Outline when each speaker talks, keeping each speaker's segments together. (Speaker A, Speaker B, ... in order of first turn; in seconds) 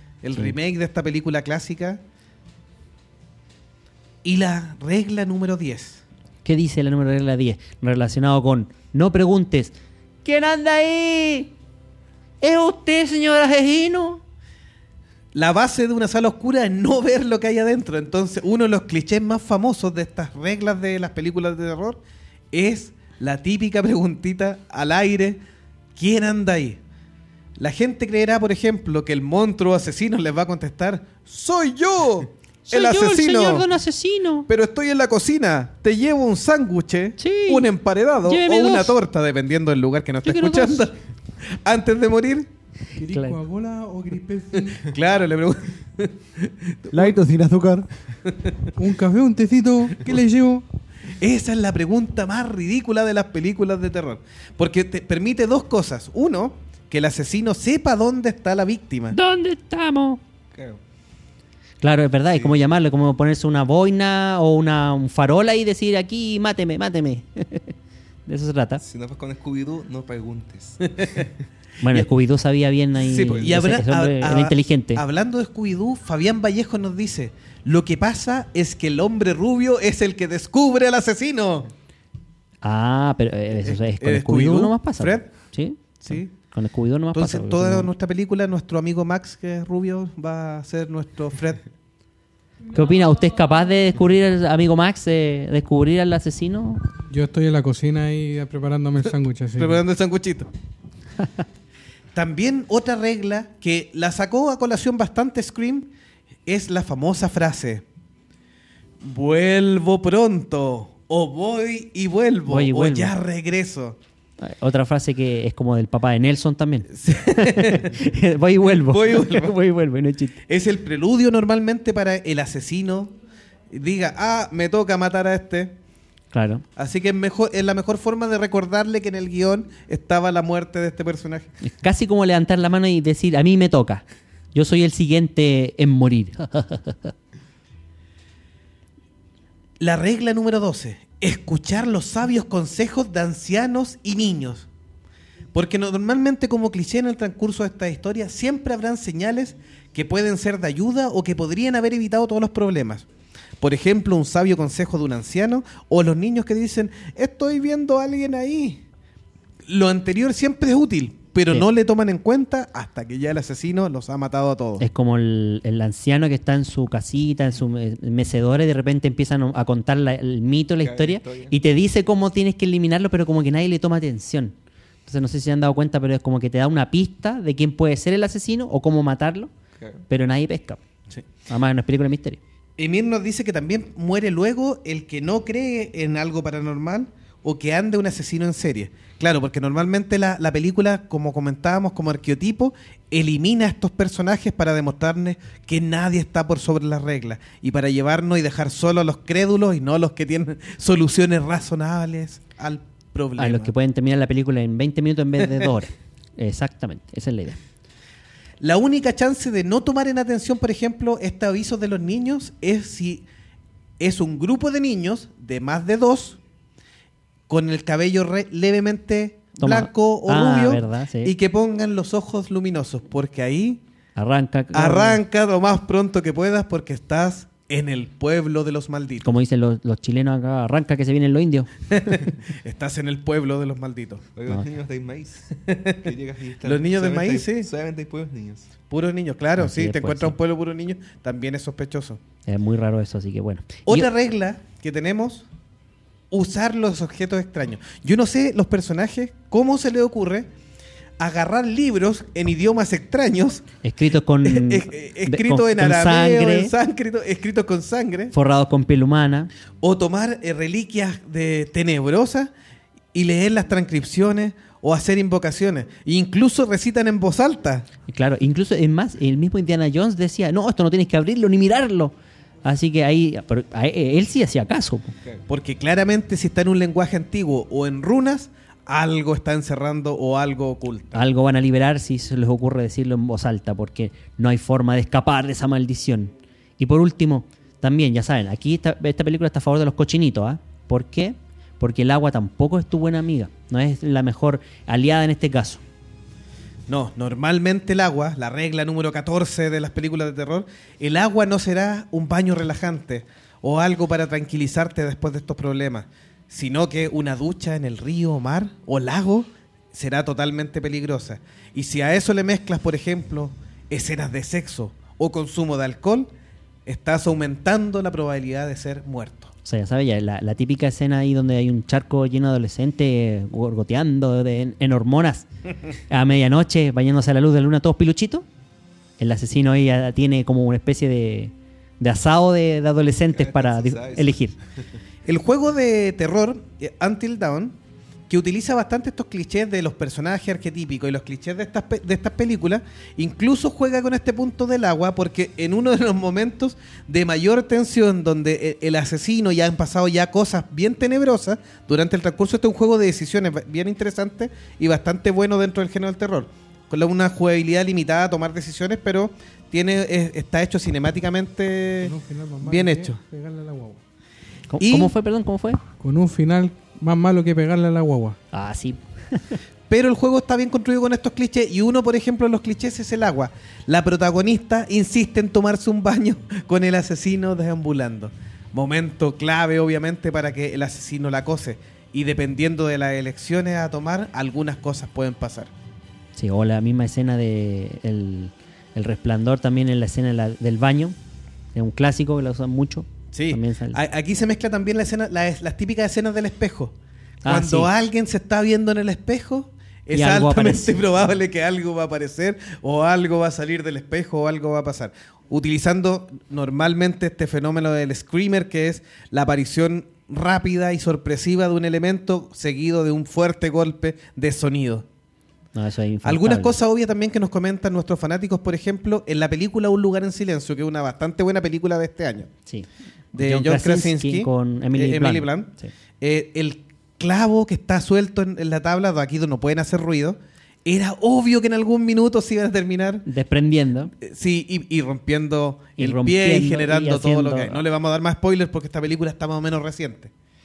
Speaker A: 0.2-2.0, 4.2-6.0, 15.3-22.0, 22.5-25.4, 26.0-26.8, 27.6-33.7, 34.5-42.5, 44.9-48.7, 51.1-59.2, 73.0-81.7, 83.6-85.3, 86.0-86.3, 87.1-91.6, 99.6-100.5, 102.1-105.9, 106.5-107.8, 109.0-114.0, 116.9-118.0, 118.7-119.5, 120.5-123.1, 123.7-125.8, 126.8-131.5, 139.8-144.7, 145.5-153.1, 153.6-158.8, 159.7-164.9, 182.8-203.7, 208.6-213.3, 214.0-216.4, 217.5-223.8, 224.7-229.3, 231.9-234.3, 235.7-236.0, 236.6-237.7, 238.9-242.2, 243.9-245.5, 246.3-250.5, 251.2-253.7, 254.4-258.3, 259.8-262.5, 263.1-267.9, 275.5-281.2, 296.9-316.3, 316.9-319.5, 335.2-337.8, 338.3-363.2, 364.8-365.1, 369.9-385.7, 393.3-396.9, 397.5-415.1, 416.2-422.5, 423.3-433.2, 434.2-440.3
Speaker B: 6.5-9.7, 10.2-11.5, 12.4-14.2, 32.7-34.5, 37.2-37.7, 38.2-39.0, 40.2-40.9, 43.1-43.4, 59.1-60.2, 61.8-67.7, 68.3-68.8, 71.8-75.0, 82.6-87.9, 92.7-96.8, 112.5-113.2, 114.4-120.4, 126.3-126.6, 131.6-137.1, 164.8-174.5, 175.1-179.5, 180.1-180.8, 181.5-182.4, 203.4-207.6, 219.6-221.3, 224.2-225.2, 229.2-231.7, 239.6-240.3, 242.5-244.1, 253.8-256.7, 258.3-259.5, 268.1-272.1, 272.6-275.1, 281.1-295.8, 319.6-325.5, 326.1-328.4, 329.2-334.5, 364.7-365.8, 368.5-369.6, 386.4-391.1, 391.7-394.0, 397.4-397.9, 400.1-401.0, 415.8-416.8, 422.7-425.9, 433.3-434.1, 436.0-437.8
Speaker C: 43.0-44.9, 48.8-50.6, 97.1-99.8, 362.0-364.0, 366.0-368.4
Speaker D: 60.5-60.8, 68.8-71.3, 170.8-171.6, 179.8-180.1, 234.4-238.7, 333.3-335.0